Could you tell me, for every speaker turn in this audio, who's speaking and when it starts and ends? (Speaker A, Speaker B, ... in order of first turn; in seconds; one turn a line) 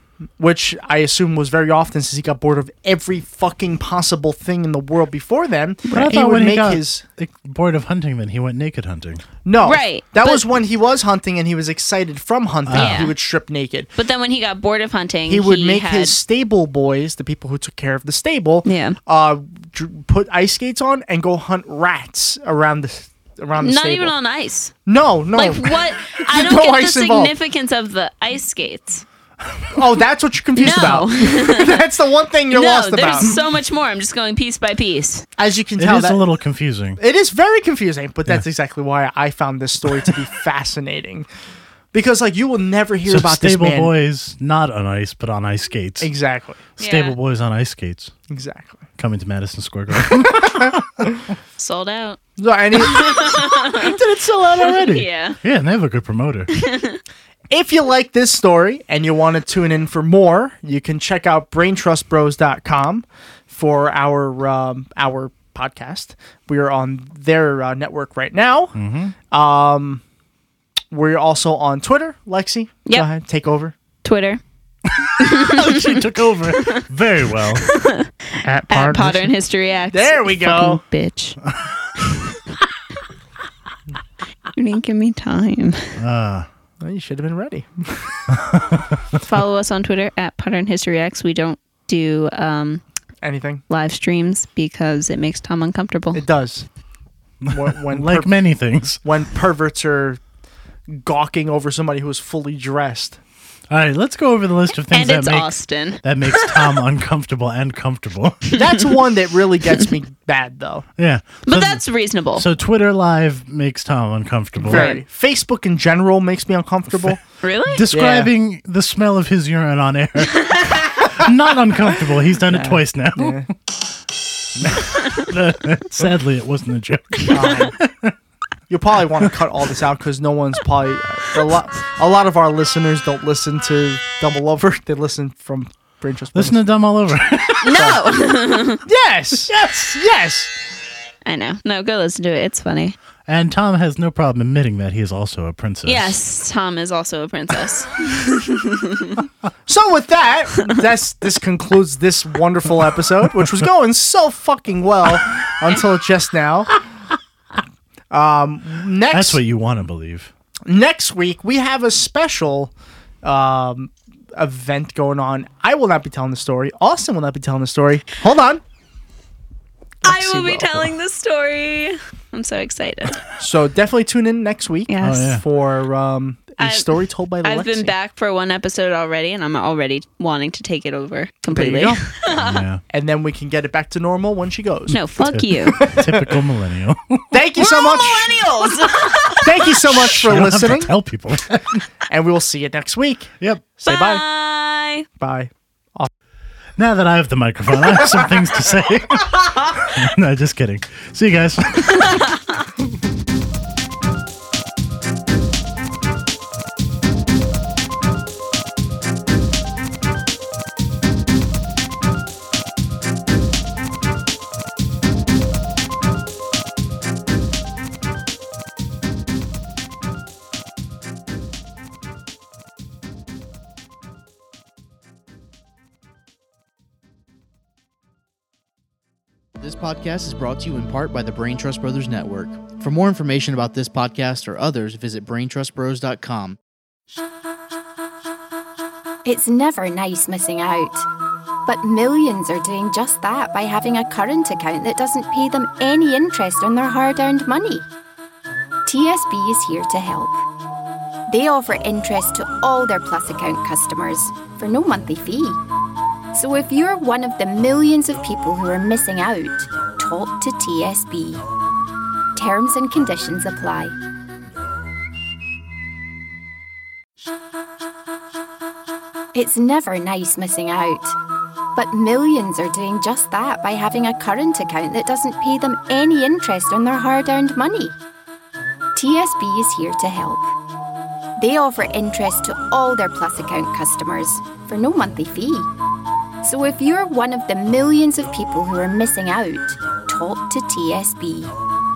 Speaker A: 0.4-7.0
Speaker B: 5.9-9.2
Speaker A: 9.4-13.9
Speaker C: 9.6-10.4
Speaker B: 12.7-13.1
Speaker C: 12.7-13.1
Speaker C: 14.0-16.2
Speaker A: 15.3-24.1
Speaker C: 18.6-19.0
Speaker C: 23.6-24.7
Speaker A: 24.9-27.3
Speaker C: 25.3-29.0
Speaker A: 29.7-33.4
Speaker C: 30.6-31.8
Speaker C: 32.5-35.2
Speaker A: 35.4-36.3
Speaker B: 35.8-37.0
Speaker A: 37.0-41.2
Speaker A: 41.9-43.9
Speaker B: 43.1-46.1
Speaker A: 46.0-46.6
Speaker B: 46.8-48.1
Speaker C: 46.8-47.1
Speaker A: 48.3-48.8
Speaker B: 49.0-51.1
Speaker A: 50.0-51.3
Speaker C: 51.6-52.2
Speaker A: 52.4-53.5
Speaker C: 52.7-54.0
Speaker B: 53.7-56.5
Speaker C: 54.6-55.4
Speaker C: 56.5-57.0
Speaker A: 57.5-68.8
Speaker B: 68.7-69.1
Speaker A: 69.3-70.0
Speaker A: 70.9-73.7
Speaker C: 74.0-74.4
Speaker B: 74.8-77.7
Speaker C: 75.2-76.8
Speaker C: 77.5-81.4
Speaker A: 78.4-79.3
Speaker A: 79.9-80.8
Speaker C: 82.0-82.4
Speaker C: 84.5-86.0
Speaker B: 86.0-86.5
Speaker A: 86.8-88.3
Speaker B: 88.3-89.0
Speaker C: 89.2-92.8
Speaker A: 93.2-93.6
Speaker C: 93.7-96.2
Speaker A: 96.1-96.6
Speaker B: 97.4-99.0
Speaker A: 97.5-98.3
Speaker A: 99.0-100.2
Speaker A: 100.9-103.2
Speaker B: 103.7-108.5
Speaker C: 104.9-106.8
Speaker A: 108.5-110.8
Speaker B: 111.0-111.8
Speaker C: 111.5-112.5
Speaker B: 112.3-115.0
Speaker A: 114.6-117.2
Speaker C: 114.7-115.0
Speaker B: 116.9-117.2
Speaker C: 117.4-117.9
Speaker B: 117.7-123.4
Speaker A: 117.9-118.3
Speaker A: 122.5-123.5
Speaker B: 124.5-128.1
Speaker A: 127.3-127.7
Speaker A: 128.7-136.6
Speaker B: 136.3-138.3
Speaker C: 137.6-138.8
Speaker A: 138.8-140.5
Speaker B: 139.5-140.0
Speaker C: 141.2-142.9
Speaker B: 143.3-146.2
Speaker C: 145.8-149.2
Speaker A: 149.7-156.8
Speaker A: 158.1-159.4
Speaker B: 159.1-160.3
Speaker A: 160.7-162.7
Speaker A: 163.2-168.6
Speaker A: 170.0-170.9
Speaker C: 170.0-173.2
Speaker A: 173.4-177.9
Speaker C: 174.9-175.4
Speaker B: 175.0-175.4
Speaker C: 176.6-176.9
Speaker C: 177.4-182.6
Speaker A: 181.5-182.1
Speaker B: 182.3-182.8
Speaker A: 182.9-185.0
Speaker C: 184.9-185.8
Speaker B: 185.2-187.3
Speaker A: 185.6-186.4
Speaker A: 187.3-188.7
Speaker C: 187.6-189.8
Speaker A: 189.4-190.9
Speaker B: 189.8-191.8
Speaker A: 192.1-194.2
Speaker C: 193.8-195.1
Speaker A: 195.2-196.1
Speaker B: 196.8-202.3
Speaker D: 229.6-236.6
Speaker E: 239.2-241.0
Speaker E: 241.7-247.9
Speaker E: 248.8-250.4
Speaker E: 251.3-255.6
Speaker E: 256.3-261.4
Speaker E: 262.3-263.9
Speaker E: 269.3-271.1
Speaker E: 271.7-277.9
Speaker E: 278.9-280.5
Speaker E: 281.4-285.7
Speaker E: 286.4-291.5